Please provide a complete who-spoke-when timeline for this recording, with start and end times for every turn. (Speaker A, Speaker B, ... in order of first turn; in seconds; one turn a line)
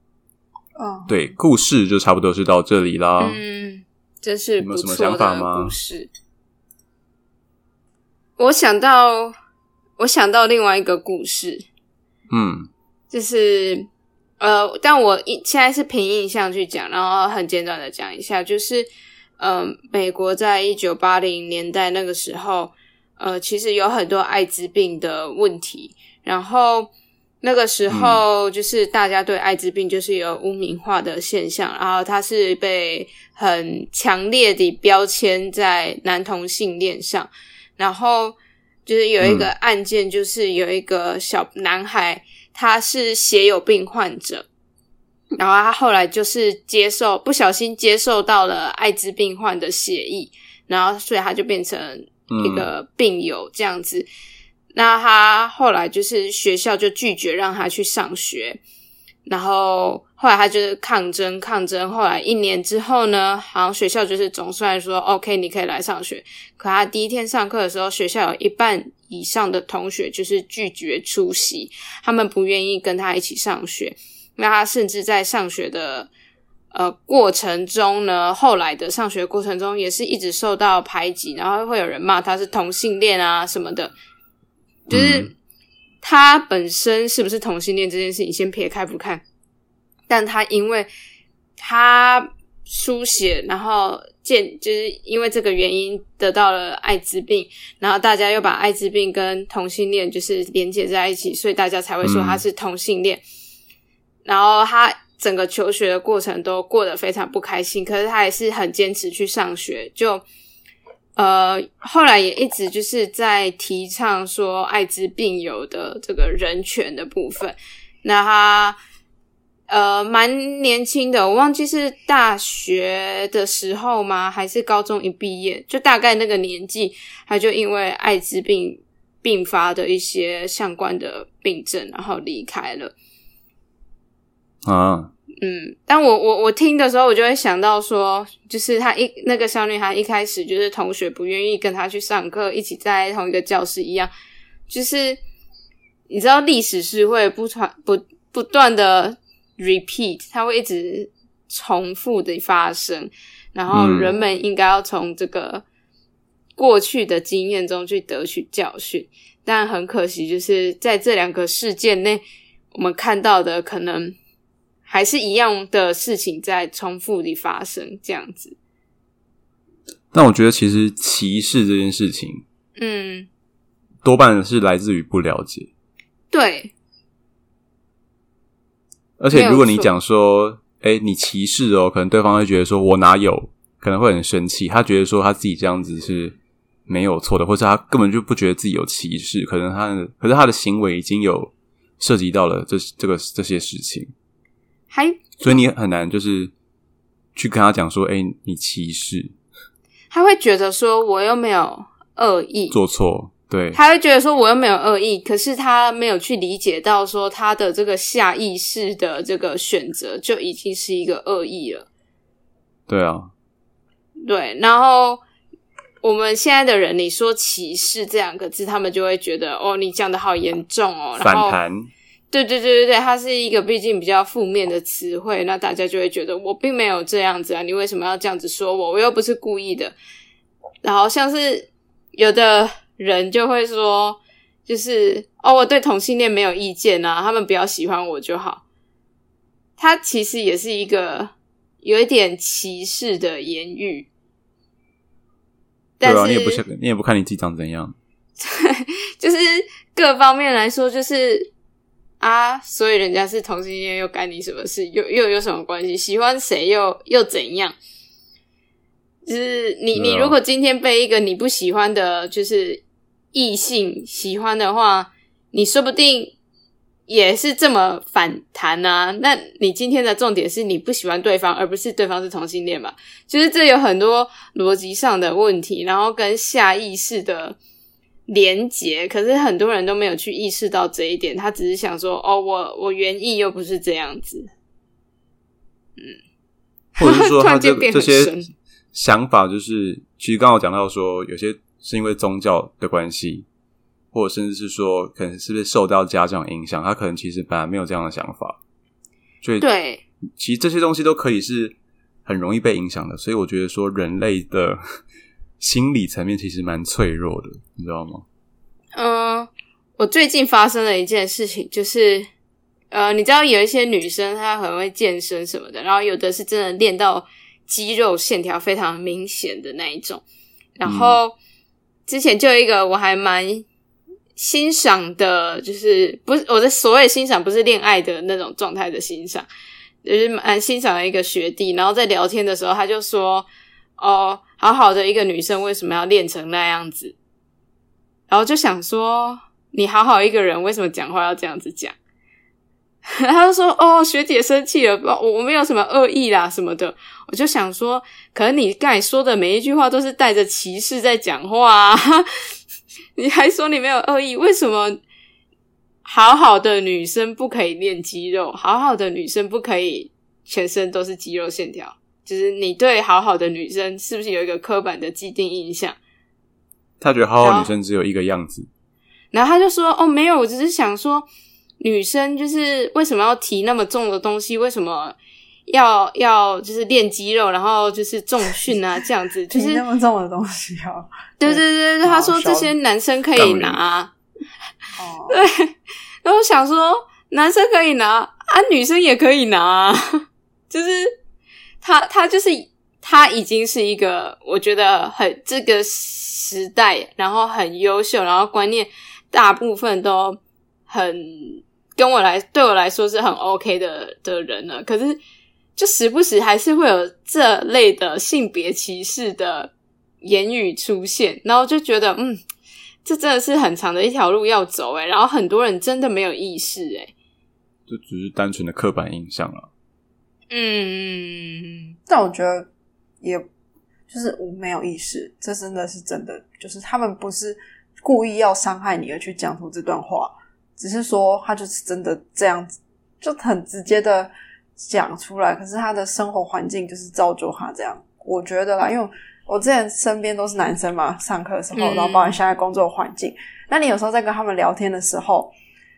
Speaker A: 0.8-1.3
Speaker B: 1.1-3.4
Speaker C: 3.2-6.1
Speaker B: 4.6-5.7
Speaker C: 8.4-9.3
Speaker C: 10.0-11.6
Speaker B: 12.3-12.7
Speaker C: 13.1-13.9
Speaker C: 14.4-26.9
Speaker C: 27.4-44.5
Speaker B: 27.9-28.2
Speaker B: 39.2-39.5
Speaker C: 45.3-54.1
Speaker B: 52.3-52.7
Speaker C: 54.7-58.6
Speaker C: 59.2-76.1
Speaker C: 76.7-83.9
Speaker C: 84.9-85.3
Speaker B: 84.9-85.3
Speaker C: 86.0-89.2
Speaker C: 90.1-90.9
Speaker C: 91.6-103.2
Speaker B: 102.0-102.4
Speaker C: 104.2-110.2
Speaker C: 111.2-118.8
Speaker C: 119.7-132.9
Speaker B: 134.6-135.1
Speaker C: 135.4-144.1
Speaker C: 144.7-145.2
Speaker C: 146.1-155.6
Speaker B: 153.7-154.1
Speaker C: 156.6-164.1
Speaker C: 164.9-168.5
Speaker B: 170.1-172.4
Speaker C: 172.8-173.3
Speaker B: 174.0-175.7
Speaker C: 176.3-176.7
Speaker B: 179.2-186.3
Speaker C: 179.3-179.9
Speaker B: 186.9-194.1
Speaker C: 194.9-195.6
Speaker B: 195.4-196.5
Speaker B: 197.3-199.3
Speaker C: 200.1-202.8
Speaker B: 202.7-203.8
Speaker C: 203.7-211.9
Speaker B: 212.9-213.3
Speaker C: 214.2-215.2
Speaker C: 216.0-221.6
Speaker B: 221.2-221.9
Speaker C: 222.3-229.9
Speaker C: 230.8-238.6
Speaker C: 239.8-244.1
Speaker C: 246.0-246.6
Speaker B: 246.0-247.9
Speaker C: 248.4-251.5
Speaker C: 252.2-257.8
Speaker C: 259.2-266.3
Speaker B: 259.9-260.3
Speaker C: 267.1-277.6
Speaker C: 278.3-284.5
Speaker B: 287.0-288.3
Speaker C: 287.0-288.5
Speaker B: 288.9-293.4
Speaker B: 294.1-298.6
Speaker B: 299.4-299.7
Speaker C: 299.6-300.0
Speaker B: 300.4-301.7
Speaker B: 302.2-304.8
Speaker B: 305.6-308.2
Speaker C: 308.9-312.3
Speaker C: 312.9-320.2
Speaker C: 320.8-321.3
Speaker B: 320.8-321.2
Speaker C: 322.1-323.6
Speaker C: 324.4-329.5
Speaker C: 330.0-333.5
Speaker C: 334.0-337.1
Speaker C: 338.3-341.9
Speaker C: 343.1-352.3
Speaker C: 353.2-355.0
Speaker C: 356.0-366.0
Speaker B: 367.0-368.7
Speaker C: 367.4-367.7
Speaker C: 369.3-371.3
Speaker C: 371.8-375.1
Speaker C: 375.7-379.8
Speaker A: 379.5-382.7
Speaker C: 381.4-384.1
Speaker B: 383.4-383.8
Speaker A: 385.0-385.4
Speaker C: 385.3-391.1
Speaker C: 391.8-405.2
Speaker C: 405.8-412.4
Speaker C: 413.0-417.1
Speaker B: 417.9-419.7
Speaker C: 420.5-421.9
Speaker A: 422.1-422.7
Speaker A: 423.2-423.4
Speaker A: 424.1-445.5
Speaker C: 441.7-442.4